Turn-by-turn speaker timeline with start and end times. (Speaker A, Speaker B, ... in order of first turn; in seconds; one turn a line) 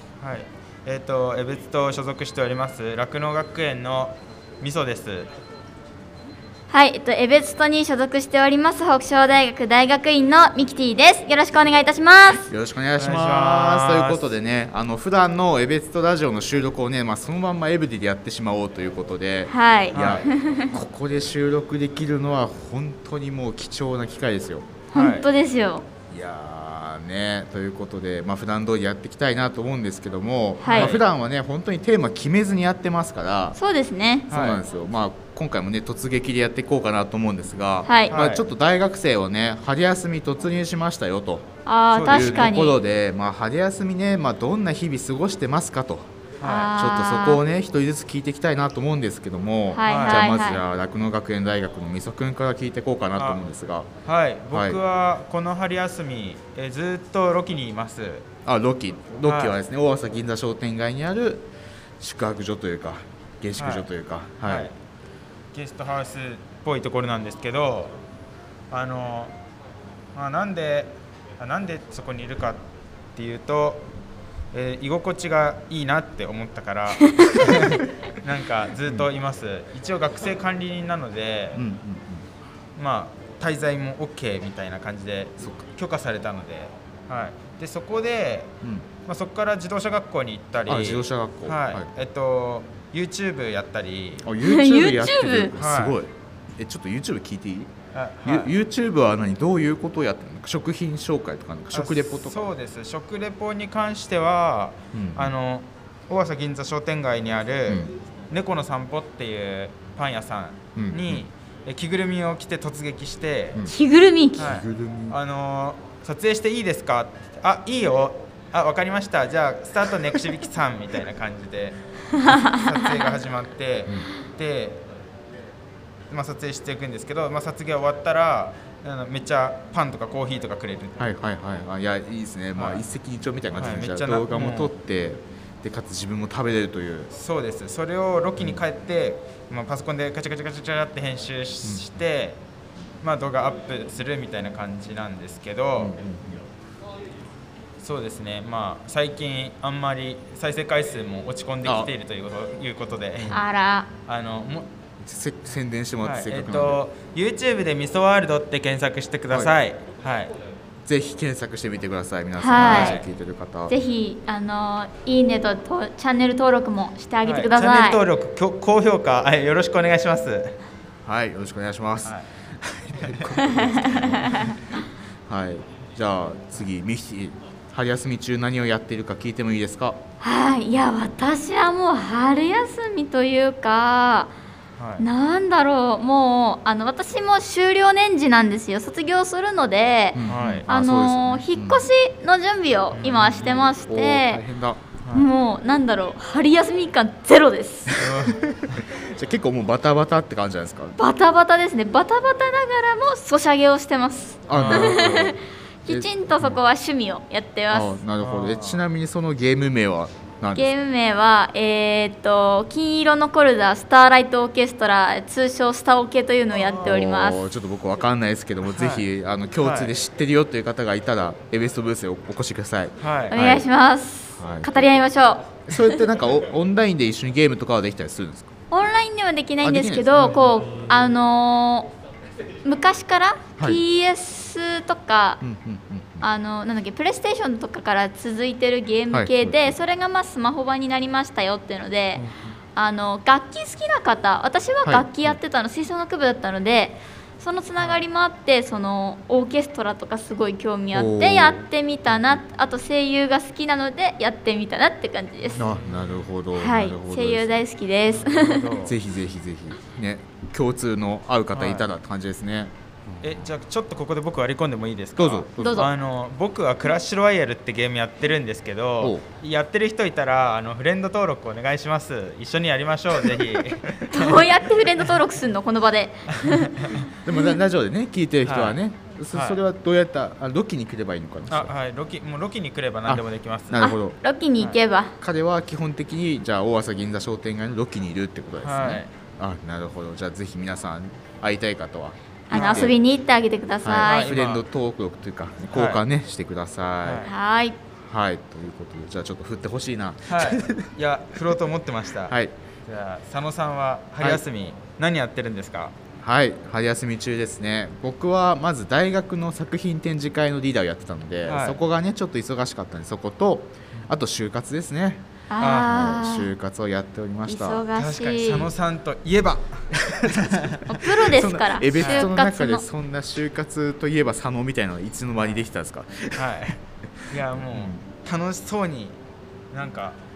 Speaker A: 0.2-5.3
Speaker B: 6.7-12.5
Speaker C: 12.5-24.8
Speaker A: 13.0-14.3
Speaker B: 19.5-20.7
Speaker A: 19.9-20.2
Speaker B: 24.9-25.8
Speaker A: 24.9-25.3
Speaker C: 26.1-33.6
Speaker B: 30.6-30.9
Speaker A: 30.6-31.0
Speaker B: 33.5-34.3
Speaker A: 34.3-34.6
Speaker C: 34.3-41.5
Speaker B: 37.9-38.1
Speaker A: 38.1-38.5
Speaker B: 41.6-42.8
Speaker A: 41.9-42.6
Speaker C: 42.0-46.1
Speaker A: 46.4-46.7
Speaker B: 46.4-47.4
Speaker C: 46.7-53.9
Speaker B: 49.7-50.6
Speaker A: 49.9-50.4
Speaker A: 53.1-53.4
Speaker A: 54.0-58.2
Speaker C: 54.5-54.8
Speaker C: 58.4-64.7
Speaker A: 59.2-59.6
Speaker A: 63.6-63.9
Speaker A: 64.4-64.7
Speaker A: 65.5-67.9
Speaker A: 68.7-69.3
Speaker A: 70.1-73.8
Speaker A: 74.5-81.6
Speaker C: 81.5-82.2
Speaker A: 82.8-88.5
Speaker C: 85.4-85.7
Speaker C: 88.6-88.9
Speaker A: 89.0-94.3
Speaker C: 90.7-91.9
Speaker C: 94.2-97.7
Speaker B: 94.4-95.5
Speaker A: 95.5-96.0
Speaker A: 97.9-98.5
Speaker C: 98.2-102.5
Speaker A: 101.7-113.6
Speaker C: 104.9-105.3
Speaker C: 110.8-111.2
Speaker B: 113.6-114.5
Speaker A: 114.4-124.8
Speaker C: 114.4-115.2
Speaker B: 122.2-122.5
Speaker A: 126.1-131.1
Speaker C: 131.0-137.1
Speaker A: 132.5-132.8
Speaker A: 133.5-134.7
Speaker A: 137.1-142.4
Speaker C: 141.6-141.9
Speaker A: 143.0-145.9
Speaker C: 145.8-146.4
Speaker A: 147.8-153.4
Speaker C: 151.6-151.9
Speaker B: 153.3-153.9
Speaker A: 154.1-154.7
Speaker C: 155.0-156.8
Speaker A: 156.0-160.3
Speaker C: 160.8-163.7
Speaker B: 162.4-163.0
Speaker A: 162.5-163.1
Speaker B: 163.7-168.0
Speaker A: 167.2-170.5
Speaker C: 171.0-180.0
Speaker A: 173.1-173.3
Speaker B: 173.5-174.6
Speaker B: 180.2-184.3
Speaker A: 184.8-185.1
Speaker B: 185.0-194.4
Speaker C: 190.1-191.9
Speaker A: 190.3-190.7
Speaker A: 192.9-193.7
Speaker C: 193.9-194.8
Speaker A: 195.0-195.3
Speaker B: 195.1-198.1
Speaker C: 197.9-201.0
Speaker A: 198.0-198.8
Speaker B: 201.0-208.0
Speaker C: 204.5-206.6
Speaker A: 204.5-205.0
Speaker C: 207.7-210.7
Speaker A: 208.2-208.8
Speaker B: 210.5-217.4
Speaker A: 216.5-216.9
Speaker C: 216.8-223.7
Speaker A: 218.7-219.1
Speaker A: 219.6-219.9
Speaker A: 223.0-223.3
Speaker B: 223.3-225.6
Speaker C: 224.4-224.9
Speaker C: 225.7-228.5
Speaker B: 228.7-231.9
Speaker C: 229.6-230.5
Speaker B: 232.6-235.4
Speaker C: 235.4-236.2
Speaker B: 236.2-255.7
Speaker C: 239.1-239.8
Speaker C: 242.2-242.6
Speaker C: 244.8-245.4
Speaker A: 247.8-248.0
Speaker C: 250.9-251.7
Speaker A: 255.6-256.1
Speaker C: 255.6-257.6
Speaker B: 256.5-258.7
Speaker A: 258.1-258.9
Speaker C: 258.8-263.4
Speaker A: 261.5-261.9
Speaker A: 263.2-274.5
Speaker C: 265.2-265.9
Speaker B: 265.6-265.9
Speaker C: 269.0-269.3
Speaker B: 274.1-277.0
Speaker A: 276.4-277.0
Speaker C: 277.1-281.7
Speaker A: 278.4-278.8
Speaker A: 279.3-279.6
Speaker A: 281.5-283.8
Speaker C: 283.1-284.2
Speaker B: 283.8-285.1
Speaker C: 285.2-293.0
Speaker A: 288.6-289.1
Speaker B: 292.5-294.3
Speaker A: 292.5-292.9
Speaker C: 293.8-297.3
Speaker A: 294.0-294.6
Speaker A: 295.7-296.0
Speaker A: 297.0-297.3
Speaker B: 297.2-297.8
Speaker C: 298.0-300.9
Speaker A: 300.3-305.9
Speaker C: 302.3-302.5
Speaker C: 306.2-317.8
Speaker A: 311.5-311.8
Speaker B: 315.5-316.5
Speaker A: 315.6-315.9
Speaker B: 317.4-318.7
Speaker A: 317.9-321.0
Speaker B: 320.9-322.8
Speaker C: 321.2-326.7
Speaker A: 321.9-322.3
Speaker A: 326.4-326.8
Speaker A: 327.3-329.2
Speaker C: 327.3-328.0
Speaker A: 329.7-330.2